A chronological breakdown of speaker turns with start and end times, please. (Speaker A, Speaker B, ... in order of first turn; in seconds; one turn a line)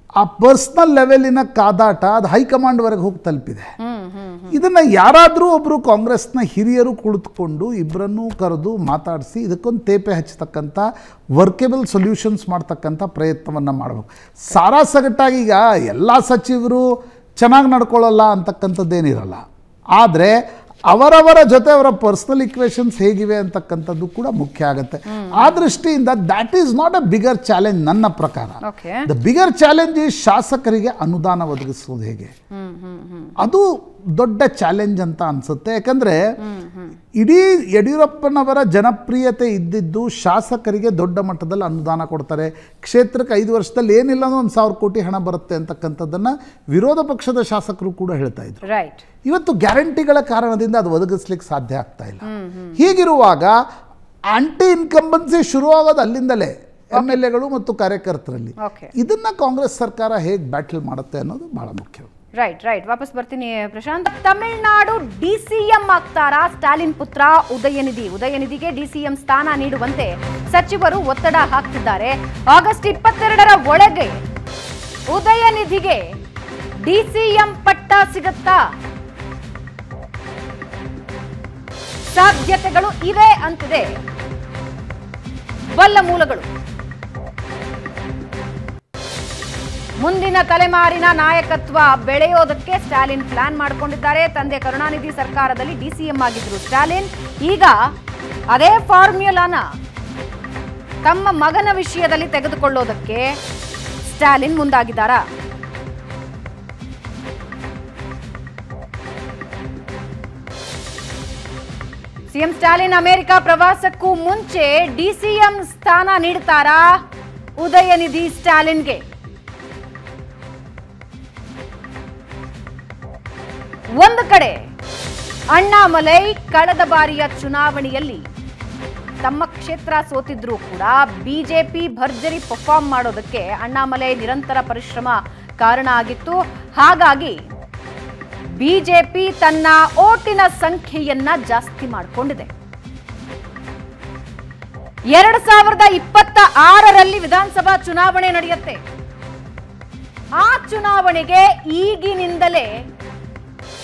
Speaker A: 0.2-3.7
Speaker B: 3.8-4.6
Speaker A: 4.5-10.8
Speaker A: 11.4-16.8
Speaker A: 17.4-19.4
Speaker A: 20.0-20.4
Speaker A: 20.9-32.3
Speaker B: 25.1-25.6
Speaker B: 28.6-29.1
Speaker B: 32.5-33.3
Speaker A: 33.4-36.3
Speaker B: 36.4-37.0
Speaker A: 37.2-48.6
Speaker B: 48.6-49.0
Speaker A: 49.2-52.2
Speaker B: 52.2-52.8
Speaker A: 52.8-53.5
Speaker A: 54.3-62.1
Speaker B: 56.9-57.2
Speaker B: 58.6-58.9
Speaker B: 62.4-74.2
Speaker B: 75.1-76.0
Speaker B: 76.8-78.6
Speaker B: 82.1-83.9
Speaker B: 85.7-86.5
Speaker B: 90.0-97.7
Speaker B: 98.5-99.6
Speaker B: 101.0-103.4
Speaker B: 104.0-105.2
Speaker B: 112.3-116.9
Speaker B: 117.6-119.0
Speaker B: 124.0-124.6
Speaker B: 125.5-128.2
Speaker B: 129.2-137.4
Speaker B: 138.6-142.5
Speaker B: 145.1-148.8
Speaker B: 150.4-152.7